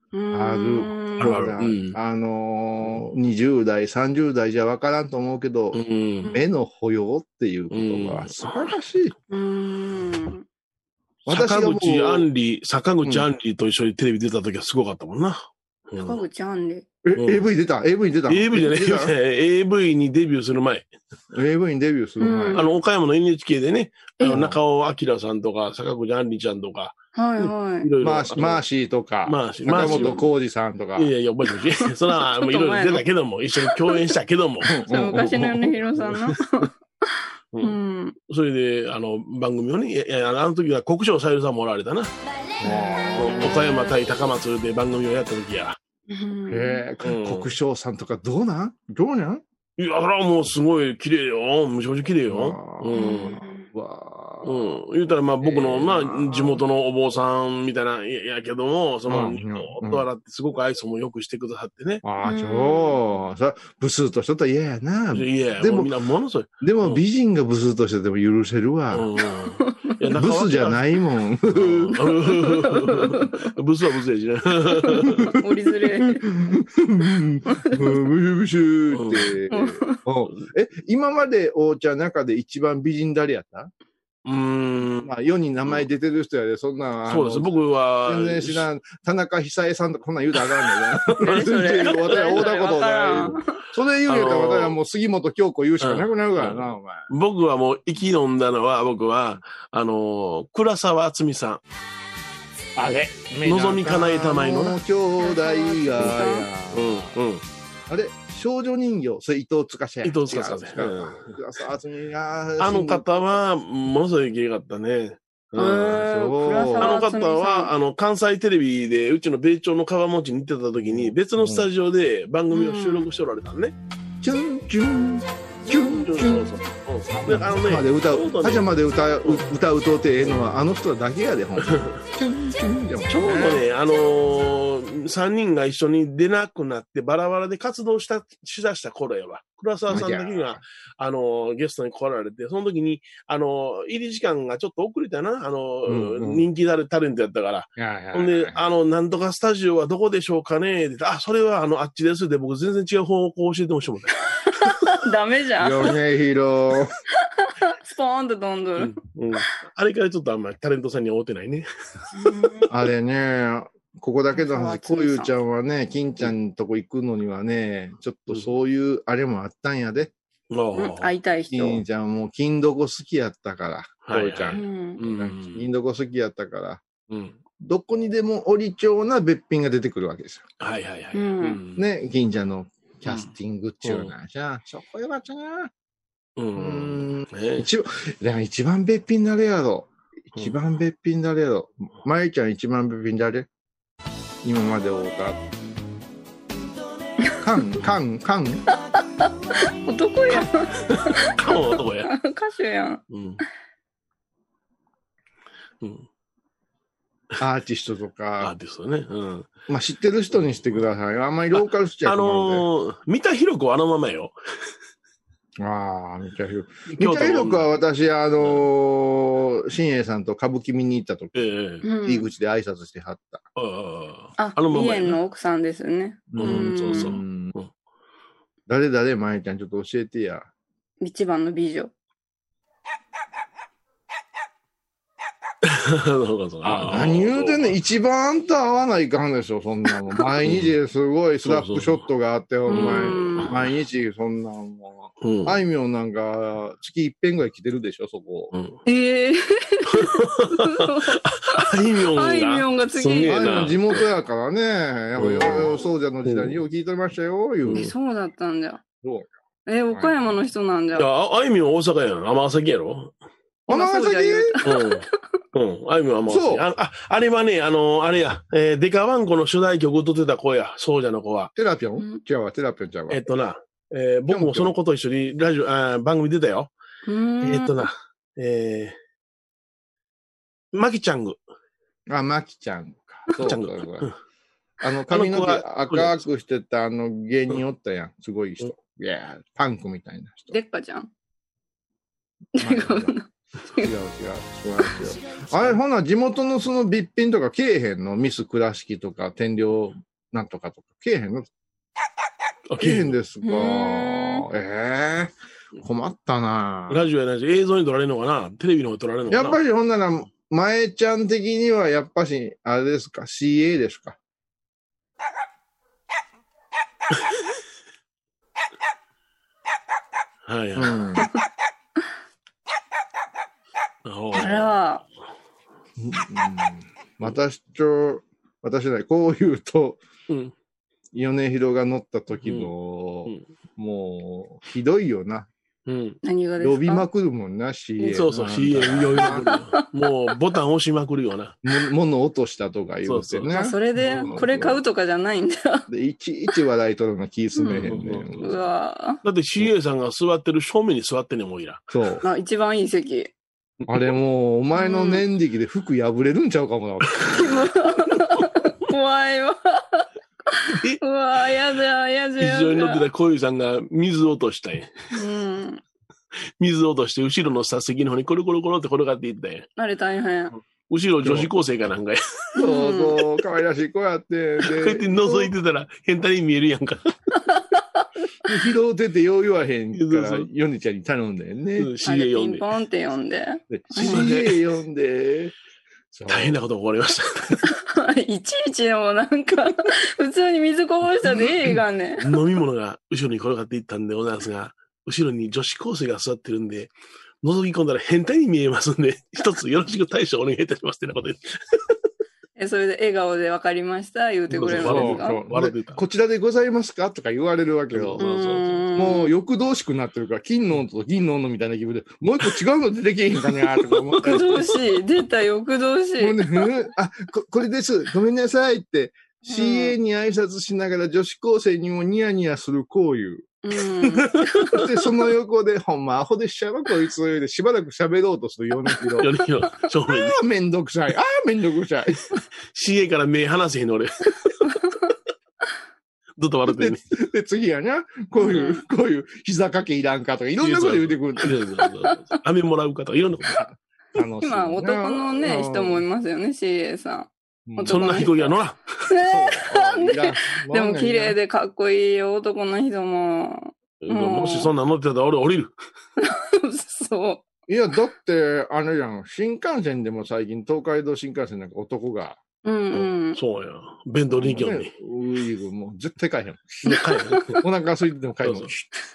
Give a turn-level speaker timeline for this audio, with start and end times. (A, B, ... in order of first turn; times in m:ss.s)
0:00.1-0:01.4 A
0:00.3-0:09.2 B
0:01.2-0:02.0 C
0:05.7-0:06.3 C
0:07.7-0:08.6 C
0:09.3-0:10.4 A
0:11.2-0:12.3 B
0:11.3-0:16.2 C
0:16.0-0:16.8 A
0:17.0-0:19.1 B
0:17.2-0:17.4 C
0:18.3-0:20.9 C
0:21.3-0:22.7 B
0:22.2-0:22.6 A
0:22.5-0:28.6 C
0:24.3-0:24.6 B
0:27.2-0:27.9 A
0:28.0-0:31.1 B
0:29.3-0:30.3 C
0:29.7-0:30.2 A
0:31.0-0:34.7 C
0:32.1-0:33.0 A
0:33.6-0:34.1 A
0:34.7-0:35.8 B
0:34.9-0:38.2 A
0:36.1-0:36.4 C
0:38.3-0:42.1 C
0:42.6-0:43.6 B
0:42.7-0:43.9 A
0:43.2-0:45.8 C
0:46.1-0:46.8 A
0:46.5-0:49.4 B
0:47.0-0:47.5 C
0:49.8-0:53.3 C
0:52.3-0:54.8 B
0:52.9-0:53.7 A
0:54.4-1:02.0 C
0:55.4-0:56.6 B
0:59.1-1:00.0 B
1:02.0-1:05.9 B
1:02.2-1:03.0 A
1:05.1-1:07.0 C
1:06.6-1:09.1 B
1:08.9-1:10.8 C
1:09.6-1:09.9 A
1:10.2-1:12.1 B
1:11.5-1:15.3 C
1:12.3-1:13.4 A
1:14.8-1:16.2 A
1:16.0-1:23.7 B
1:17.5-1:18.0 A
1:18.9-1:19.3 C
1:19.5-1:20.0 A
1:24.2-1:25.1 C
1:25.0-1:27.5 B
1:27.1-1:28.7 C
1:28.0-1:37.1 B
1:30.6-1:31.9 C
1:31.2-1:33.6 A
1:34.1-1:34.8 C
1:35.8-1:41.6 C
1:42.8-1:47.2 B
1:43.4-1:44.8 C
1:45.2-1:46.5 A
1:46.7-1:47.4 C
1:47.9-1:53.0 B
1:50.0-1:51.4 C
1:52.6-1:56.0 C
1:55.6-1:57.7 A
1:55.9-1:57.0 B
1:56.8-2:03.8 C
2:00.8-2:01.7 B
2:02.5-2:03.1 A
2:04.2-2:06.6 B
2:05.7-2:08.7 C
2:07.1-2:13.6 B
2:11.7-2:12.0 C
2:13.1-2:34.2 C
2:19.9-2:20.6 B
2:25.9-2:26.4 B
2:27.8-2:28.6 B
2:34.5-2:35.9 A
2:35.6-2:36.9 B
2:37.4-2:39.0 A
2:38.8-2:41.7 C
2:42.2-2:42.7 A
2:42.7-2:50.1 B
2:44.3-2:45.3 A
2:50.5-2:51.2 C
2:50.8-2:51.8 A
2:51.5-2:56.8 B
2:54.0-2:55.7 C
2:54.5-2:55.0 A
2:57.1-2:57.4 C
2:57.6-3:00.5 B
3:00.6-3:01.9 C
3:01.1-3:01.6 A
3:01.8-3:05.7 B
3:03.8-3:04.1 C
3:06.4-3:07.7 C
3:06.6-3:13.5 B
3:14.4-3:15.4 B
3:17.4-3:18.6 B
3:19.8-3:23.0 A
3:20.9-3:22.1 C
3:23.1-3:23.4 C
3:27.4-3:28.5 B
3:28.4-3:29.5 C
3:29.7-3:32.7 B
3:31.6-3:34.4 C
3:35.6-3:41.4 B
3:36.9-3:37.7 C
3:41.4-3:41.8 C
3:41.8-3:42.3 A
3:42.0-3:43.4 B
3:43.6-3:45.2 C
3:44.4-3:47.1 A
3:46.3-3:47.5 B
3:46.4-3:47.7 C
3:48.7-3:50.5 B
3:51.0-3:51.9 A
3:55.6-3:57.8 C
3:56.6-4:08.5 B
4:00.4-4:00.7 C
4:01.4-4:02.0 C
4:02.7-4:03.5 A
4:02.7-4:03.6 C
4:05.2-4:05.6 C
4:08.5-4:08.8 C
4:08.9-4:13.7 A
4:09.9-4:14.1 C
4:13.2-4:17.9 B
4:15.2-4:16.6 C
4:17.7-4:17.9 C
4:17.7-4:18.8 A
4:19.0-4:19.3 B
4:19.7-4:21.1 A
4:19.9-4:20.3 B
4:21.0-4:23.1 C
4:23.7-4:25.2 A
4:23.7-4:24.6 B
4:24.6-4:31.5 C
4:26.3-4:26.6 B
4:31.6-4:33.2 B
4:33.1-4:36.7 C
4:34.3-4:34.7 B
4:37.1-4:37.8 A
4:37.4-4:39.0 C
4:40.7-4:41.4 C
4:42.1-4:44.1 B
4:43.3-4:44.1 C
4:44.8-4:50.6 B
4:45.1-4:46.2 C
4:50.5-4:51.1 A
4:52.6-4:53.2 B
4:52.6-4:53.2 A
4:53.8-5:01.5 B
5:02.7-5:03.2 C
5:02.8-5:07.1 B
5:03.4-5:04.4 A
5:06.9-5:09.6 C
5:09.3-5:14.2 B
5:20.5-5:21.0 C
5:20.8-5:21.3 B
5:24.0-5:24.7 C
5:24.3-5:25.1 A
5:26.0-5:30.0 B
5:31.1-5:35.5 B
5:32.4-5:32.7 C
5:35.9-5:36.2 C
5:36.2-5:37.1 A
5:36.6-5:39.4 B
5:38.0-5:38.3 A
5:38.1-5:41.6 C
5:39.2-5:39.8 A
5:41.6-5:44.8 B
5:43.1-5:43.6 C
5:43.5-5:45.9 A
5:45.9-5:48.5 B
5:47.6-5:47.9 A
5:47.7-5:48.5 C
5:48.4-5:49.2 A
5:49.2-5:51.9 C
5:51.9-5:52.2 B
5:52.2-5:53.3 A
5:53.9-5:57.5 B
5:54.8-5:55.2 A
5:57.4-6:03.1 A
6:00.7-6:01.0 C
6:02.4-6:04.9 C
6:05.1-6:05.8 A
6:06.6-6:09.7 C
6:09.8-6:10.5 A
6:10.9-6:12.2 C
6:11.2-6:11.5 B
6:12.6-6:13.2 A
6:12.6-6:15.5 B
6:14.6-6:17.1 C
6:18.5-6:21.9 B
6:19.9-6:20.5 C
6:21.8-6:22.7 C
6:22.0-6:24.3 A
6:23.7-6:25.5 B
6:24.0-6:24.6 C
6:26.1-6:26.6 B
6:26.3-6:27.7 C
6:27.7-6:32.3 A
6:32.2-6:42.0 C
6:42.6-6:45.4 A
6:44.5-6:46.0 C
6:44.7-6:48.2 B
6:47.9-6:48.9 C
6:48.2-6:49.3 A
6:49.0-6:54.7 B
6:54.2-6:56.7 A
6:56.2-7:03.6 B
6:59.5-7:00.0 A
7:03.6-7:04.9 A
7:04.7-7:09.3 B
7:09.2-7:10.4 C
7:10.1-7:12.2 B
7:12.7-7:14.7 C
7:14.7-7:15.1 A
7:16.4-7:17.0 C
7:16.7-7:21.6 B
7:18.4-7:18.8 A
7:20.6-7:23.6 C
7:23.4-7:26.0 B
7:24.4-7:28.6 A
7:27.7-7:28.3 B
7:27.9-7:28.8 C
7:29.1-7:34.7 A
7:29.2-7:31.4 B
7:34.0-7:35.7 C
7:36.2-7:37.4 A
7:37.7-7:42.4 B
7:42.6-7:43.4 A
7:43.3-7:44.9 C
7:44.4-7:48.9 B
7:46.8-7:47.6 C
7:48.4-7:48.7 C